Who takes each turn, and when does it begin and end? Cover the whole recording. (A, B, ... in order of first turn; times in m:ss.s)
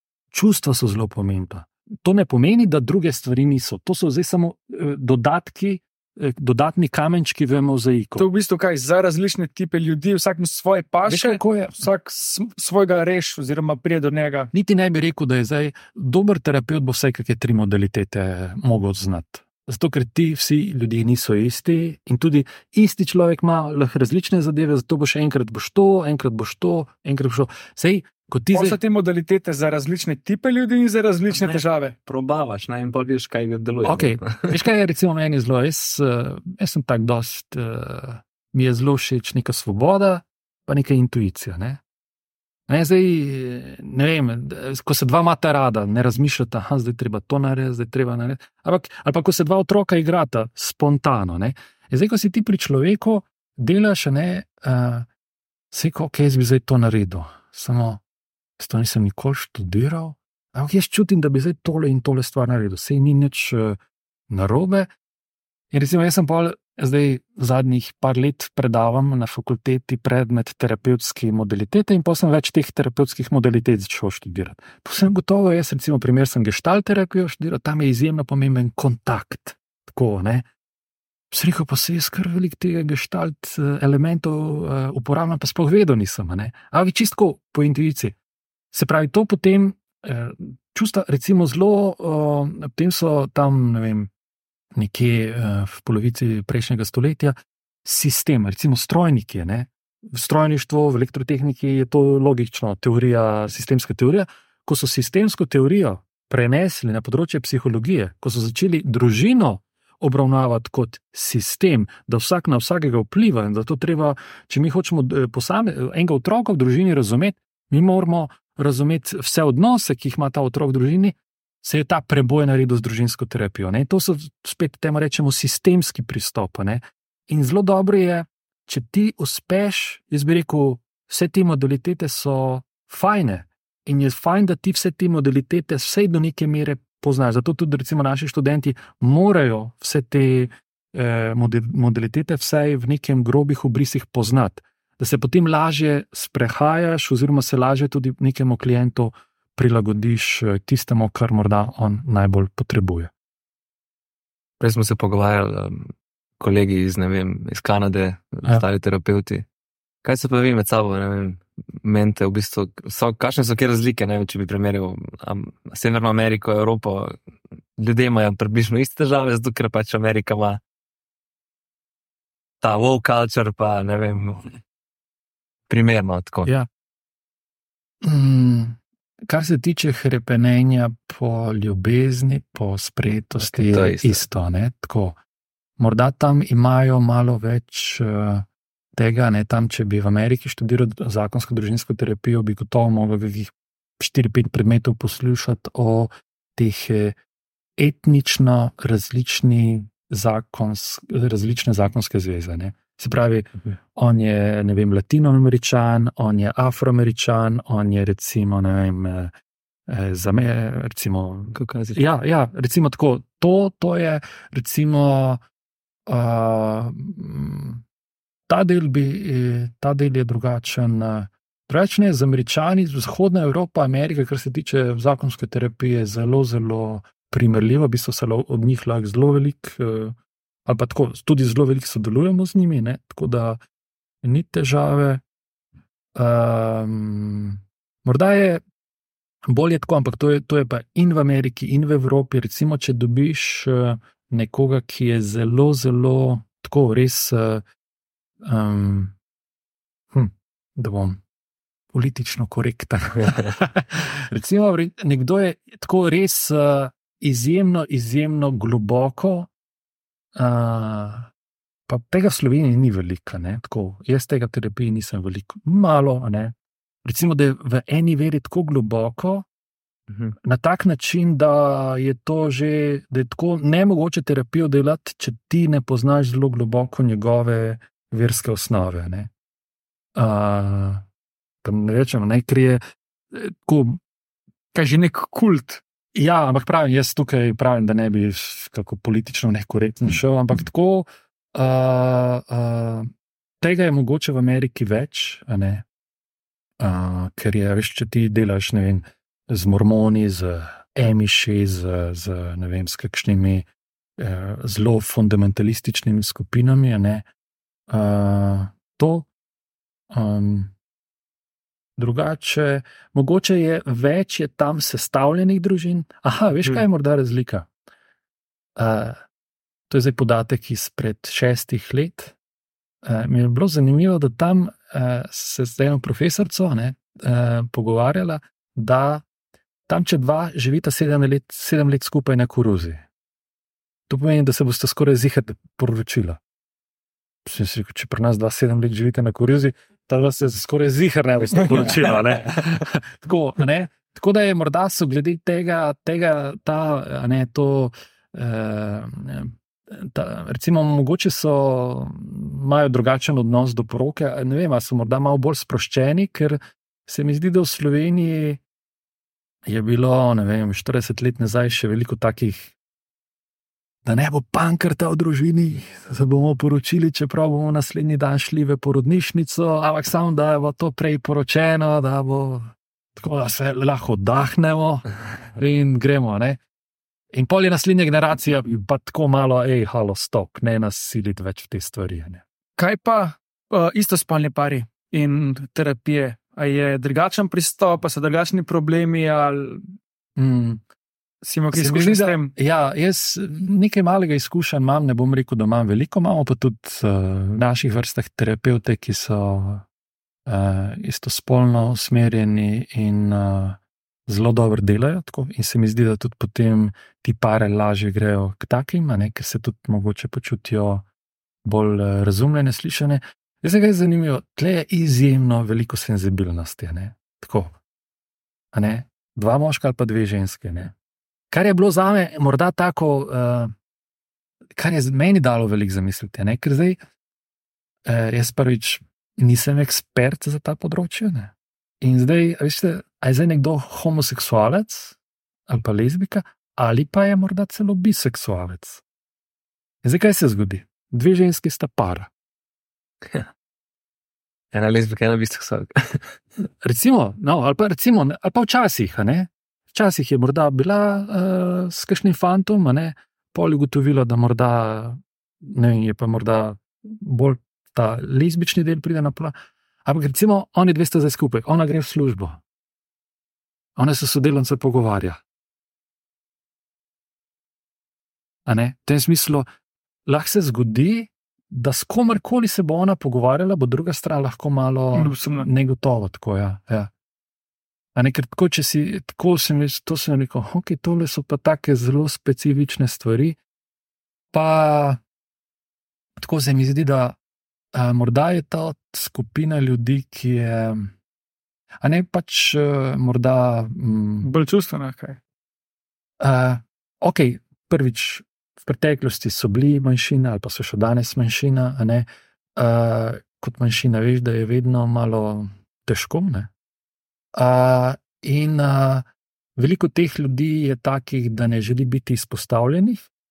0:00.3-0:08.3 A
0:08.2-0:14.5 B
0:11.0-0:11.8 A
0:14.5-0:28.8 A
0:28.5-0:31.9 B
0:31.3-0:34.5 C
0:33.8-0:41.8 A
0:42.7-0:55.1 A
0:55.7-0:58.0 A
0:58.6-1:03.8 A
1:04.3-1:04.9 A
1:05.7-1:20.5 A
1:21.3-1:28.1 A
1:28.7-1:34.1 A
1:34.7-2:33.1 A
2:34.6-2:39.4 C
2:40.0-2:47.2 C
2:47.8-2:50.6 C
2:52.6-2:54.5 C
2:55.7-2:56.5 C
2:58.0-3:05.2 A
3:03.4-3:04.2 C
3:05.8-3:17.2 A
3:17.8-3:29.3 A
3:29.9-3:35.4 A
3:31.5-3:32.0 C
3:36.1-3:37.8 A
3:38.5-3:50.1 A
3:50.7-3:53.6 A
3:54.2-3:55.2 A
3:56.2-3:58.6 A
3:59.5-4:07.6 A
4:08.4-4:09.1 A
4:10.1-4:11.2 A
4:11.9-4:19.5 A
4:20.4-4:21.3 A
4:21.9-4:29.5 A
4:30.4-4:39.3 A
4:40.2-4:41.0 A
4:41.6-4:42.8 A
4:43.3-4:44.0 A
4:44.7-4:45.8 B
4:46.1-4:53.1 A
4:53.6-4:55.8 A
4:56.8-5:03.7 A
5:04.2-5:07.3 A
5:07.9-5:09.3 A
5:10.1-5:10.7 A
5:12.0-5:17.7 A
5:18.8-5:19.2 A
5:19.9-5:22.4 A
5:23.0-5:29.2 A
5:29.9-5:33.0 A
5:34.1-5:36.4 A
5:37.4-5:58.6 A
5:59.7-6:02.7 A
6:04.0-6:16.6 A
6:17.3-6:22.4 A
6:22.8-6:29.9 B
6:30.4-6:30.8 A
6:31.4-6:32.5 B
6:31.7-6:39.8 A
6:40.5-6:51.0 A
6:51.6-6:57.8 A
6:58.7-7:00.9 A
7:01.5-7:03.7 A
7:04.8-7:07.0 A
7:08.0-7:15.2 A
7:15.7-7:19.0 A
7:20.0-7:22.3 A
7:24.7-7:26.3 C
7:26.8-7:39.5 A
7:40.0-7:42.6 A
7:44.0-7:45.4 A
7:48.7-7:49.7 A
7:50.3-7:57.1 A
7:55.1-7:55.7 B
7:58.1-8:03.6 A
8:04.5-8:05.2 A
8:06.4-8:07.4 A
8:07.9-8:11.1 A
8:12.0-8:14.5 A
8:14.4-8:15.4 B
8:16.4-8:26.7 A
8:27.5-8:29.2 A
8:29.8-8:33.3 A